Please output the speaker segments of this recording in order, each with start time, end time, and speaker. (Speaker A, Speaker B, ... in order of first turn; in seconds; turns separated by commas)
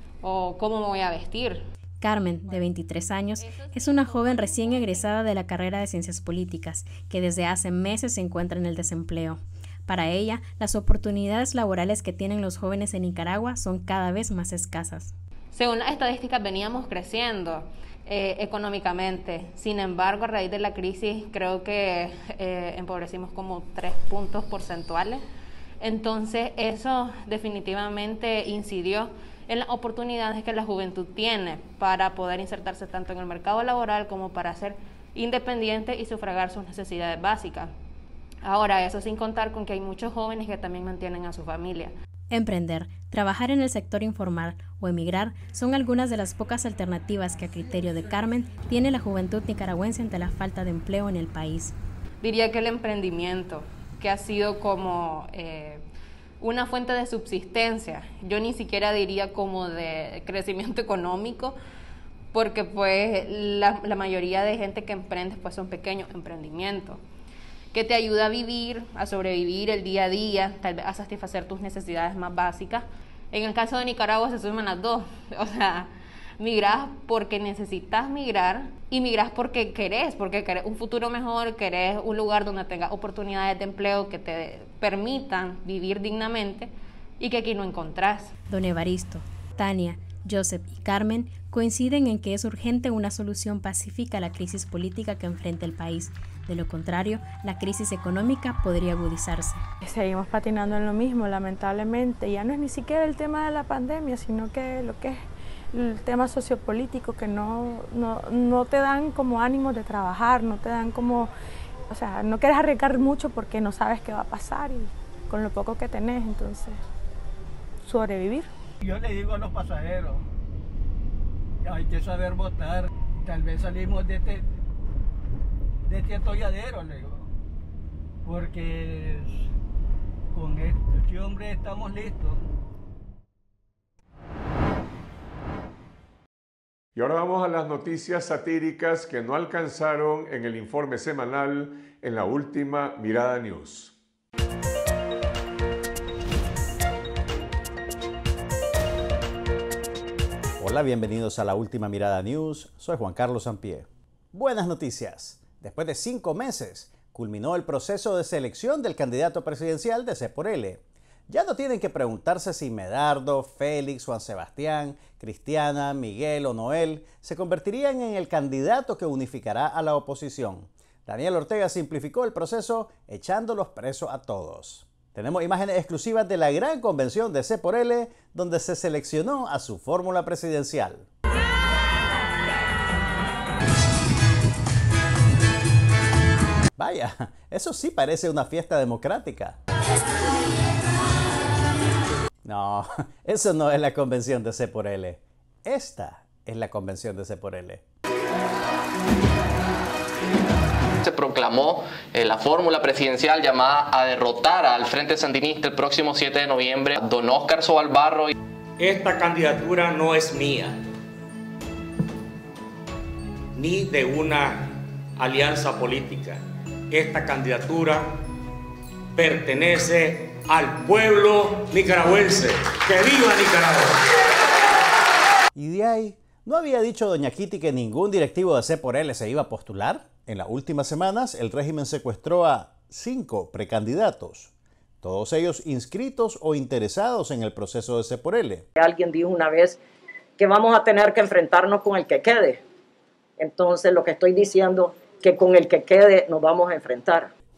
Speaker A: 0.2-1.6, Speaker B: 2.0-15.1, Speaker A: 2.4-5.2, Speaker A: 15.5-25.2, Speaker A: 25.8-37.7, Speaker A: 38.4-41.9, Speaker B: 42.3-51.7, Speaker A: 52.2-55.8, Speaker A: 56.4-61.5, Speaker A: 62.3-67.0, Speaker A: 67.7-88.3, Speaker B: 88.5-99.6, Speaker C: 99.8-111.3, Speaker C: 111.9-116.8, Speaker C: 117.8-118.5, Speaker D: 118.8-120.2, Speaker D: 121.6-124.5, Speaker D: 125.9-127.3, Speaker D: 128.2-129.4, Speaker D: 130.3-132.5, Speaker E: 136.9-143.9, Speaker F: 150.6-181.1, Speaker F: 186.8-189.6, Speaker F: 192.4-197.8, Speaker G: 201.0-208.3, Speaker H: 208.8-210.8, Speaker H: 213.5-218.2, Speaker H: 219.1-224.0, Speaker F: 225.5-238.6, Speaker I: 238.8-239.8, Speaker I: 240.4-242.6, Speaker I: 243.4-247.3